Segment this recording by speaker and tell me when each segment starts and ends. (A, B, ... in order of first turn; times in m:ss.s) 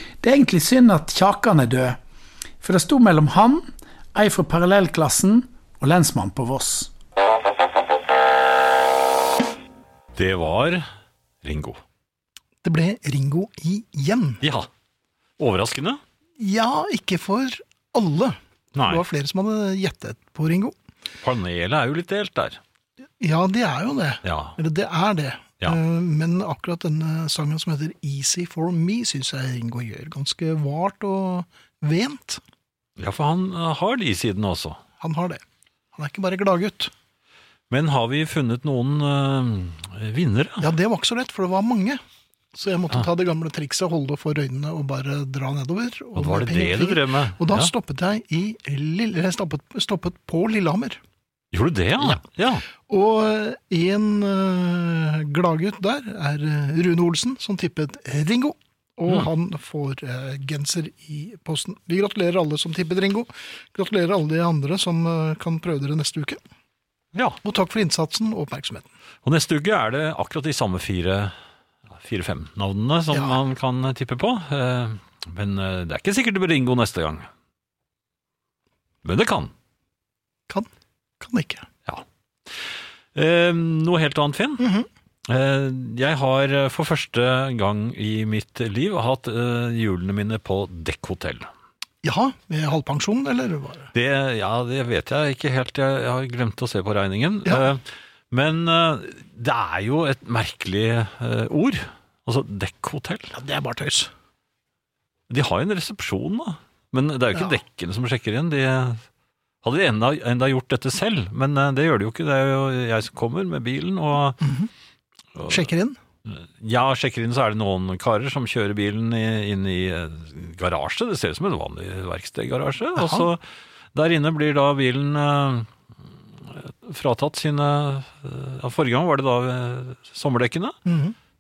0:00.2-0:02.0 A
0:02.6-0:06.9 A
0:10.2-0:10.8 B
0:11.4-0:11.8 B
0:12.6-0:14.4 C
0:14.4-0:14.7 B
0:15.4-0:16.0 B
0:16.4-0:20.8 C
0:18.8-0:19.0 B
0:21.2-0:22.6 B
0:23.2-0:32.4 C
0:24.2-0:24.6 B
0:33.0-0:34.8 B
0:35.0-0:35.4 C
0:36.0-0:36.9 C
0:37.7-0:40.7 B
0:40.6-0:42.0 C
0:42.5-0:51.0 C
0:46.2-0:47.7 B
0:51.5-0:52.6 B
0:52.9-1:06.4 C
1:07.1-1:07.4 B
1:07.4-1:08.9 C
1:09.2-1:11.3 B
1:11.9-1:17.3 B
1:13.1-1:13.4 C
1:19.0-1:19.5 B
1:21.2-1:21.7 C
1:23.2-1:24.6 B
1:24.6-1:24.9 C
1:25.3-1:31.5 B
1:32.0-1:33.9 C
1:33.9-1:43.3 B
1:43.3-1:44.1 C
1:45.3-1:49.0 B
1:49.6-1:54.4 B
1:54.4-1:54.7 C
1:55.4-1:55.6 B
1:55.5-1:56.0 C
1:56.3-2:03.4 B
2:03.0-2:03.3 C
2:03.9-2:05.7 B
2:06.4-2:10.8 B
2:10.9-2:11.2 C